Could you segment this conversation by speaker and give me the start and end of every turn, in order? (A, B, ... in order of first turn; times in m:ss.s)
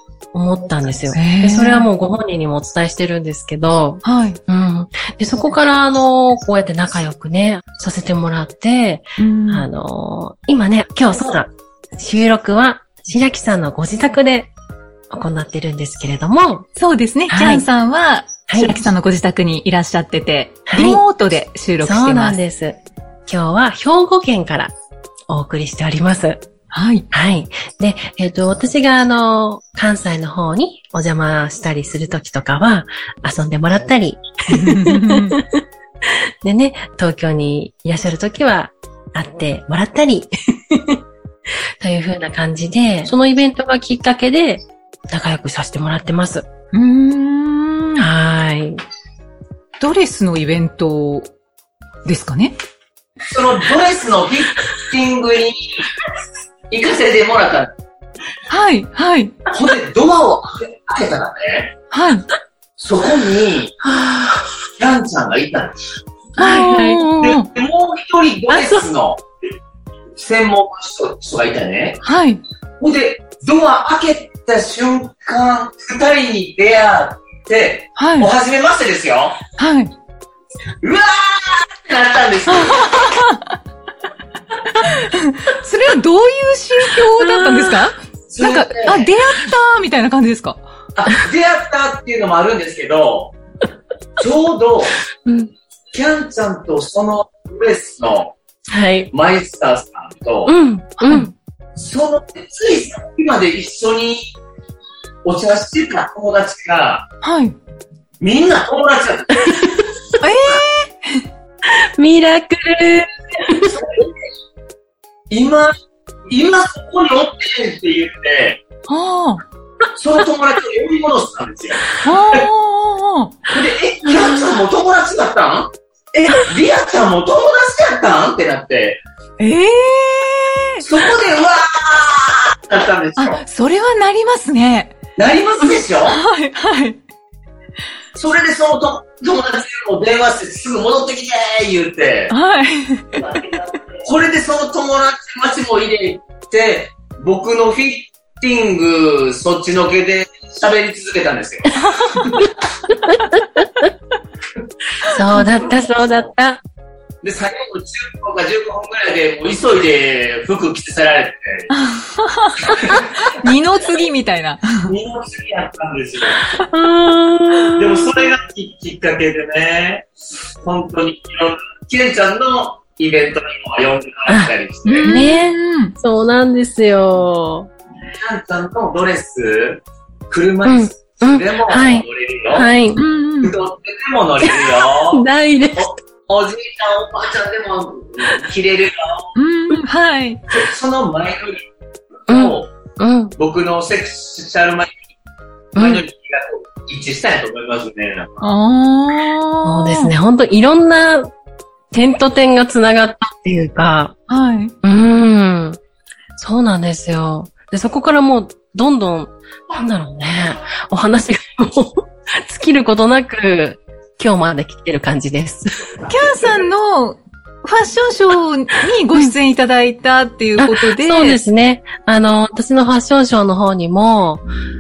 0:00.3-0:14.5 A
0:01.1-0:01.8 B
0:04.0-0:04.4 B
0:09.2-0:09.7 B
0:15.1-0:16.7 A
0:16.8-0:22.4 B
0:17.3-0:17.7 A
0:18.5-0:18.9 A
0:20.7-0:21.0 A
0:21.8-0:24.7 A
0:25.3-0:26.4 A
0:26.7-0:27.1 B
0:27.1-0:41.0 A
0:34.5-0:35.4 B
0:41.8-0:46.4 A
0:46.7-0:48.1 B
0:48.0-0:48.8 A
0:49.8-0:51.3 B
0:52.0-0:52.6 B
0:53.3-0:55.6 C
0:56.7-0:57.7 C
0:58.5-0:59.4 B
0:59.5-1:01.8 C
1:01.9-1:02.3 B
1:02.8-1:03.8 C
1:03.8-1:04.5 A
1:04.8-1:05.8 C
1:06.4-1:07.1 A
1:06.4-1:07.5 B
1:07.2-1:09.2 C
1:08.5-1:08.9 A
1:10.2-1:12.0 C
1:12.0-1:12.4 B
1:12.8-1:19.4 C
1:18.0-1:18.3 B
1:19.6-1:19.9 B
1:20.8-1:23.1 C
1:22.5-1:23.5 B
1:24.8-1:30.6 B
1:27.2-1:27.9 A
1:28.3-1:29.1 C
1:31.0-1:33.4 C
1:34.2-1:35.0 C
1:35.9-1:38.4 C
1:38.7-1:39.1 A
1:39.1-1:40.6 C
1:40.5-1:41.3 A
1:41.0-1:41.3 B
1:41.8-1:44.3 C
1:45.2-1:47.1 C
1:47.2-1:47.6 B
1:48.2-1:49.9 C
1:49.4-1:49.8 A
1:50.2-1:51.2 B
1:51.6-1:53.9 A
1:53.6-1:54.1 C
1:55.3-1:55.7 C
1:56.3-1:58.6 C
1:58.9-1:59.4 B
2:00.0-2:02.4 C
2:02.0-2:03.5 B
2:03.5-2:09.0 C
2:04.1-2:04.5 B
2:09.4-2:10.8 B
2:10.8-2:13.4 C
2:13.2-2:14.9 B
2:15.2-2:16.2 C
2:16.1-2:17.0 B
2:18.2-2:22.3 C
2:22.3-2:23.3 B
2:23.2-2:32.5 C
2:35.1-2:36.6 A
2:35.3-2:36.3 C
2:37.2-2:41.7 C
2:41.7-2:44.9 B
2:42.6-2:43.5 C
2:44.9-2:46.5 C
2:46.6-2:48.3 A
2:47.8-2:50.1 C
2:50.6-2:55.2 C
2:54.9-2:56.0 B
2:55.0-2:57.7 A
2:58.2-3:02.7 C
3:00.6-3:03.0 A
3:03.0-3:03.6 B
3:03.4-3:05.2 C
3:04.4-3:05.9 A
3:05.8-3:09.3 C
3:09.4-3:10.4 B
3:10.5-3:11.7 C
3:12.3-3:12.7 C
3:12.3-3:13.3 A
3:13.4-3:14.9 C
3:15.8-3:16.0 A
3:15.8-3:18.4 C
3:18.4-3:20.1 B
3:19.6-3:21.3 A
3:21.9-3:24.2 A
3:24.3-3:24.7 B
3:24.8-3:25.8 A
3:26.4-3:36.1 A
3:36.1-3:41.4 B
3:40.6-3:44.4 A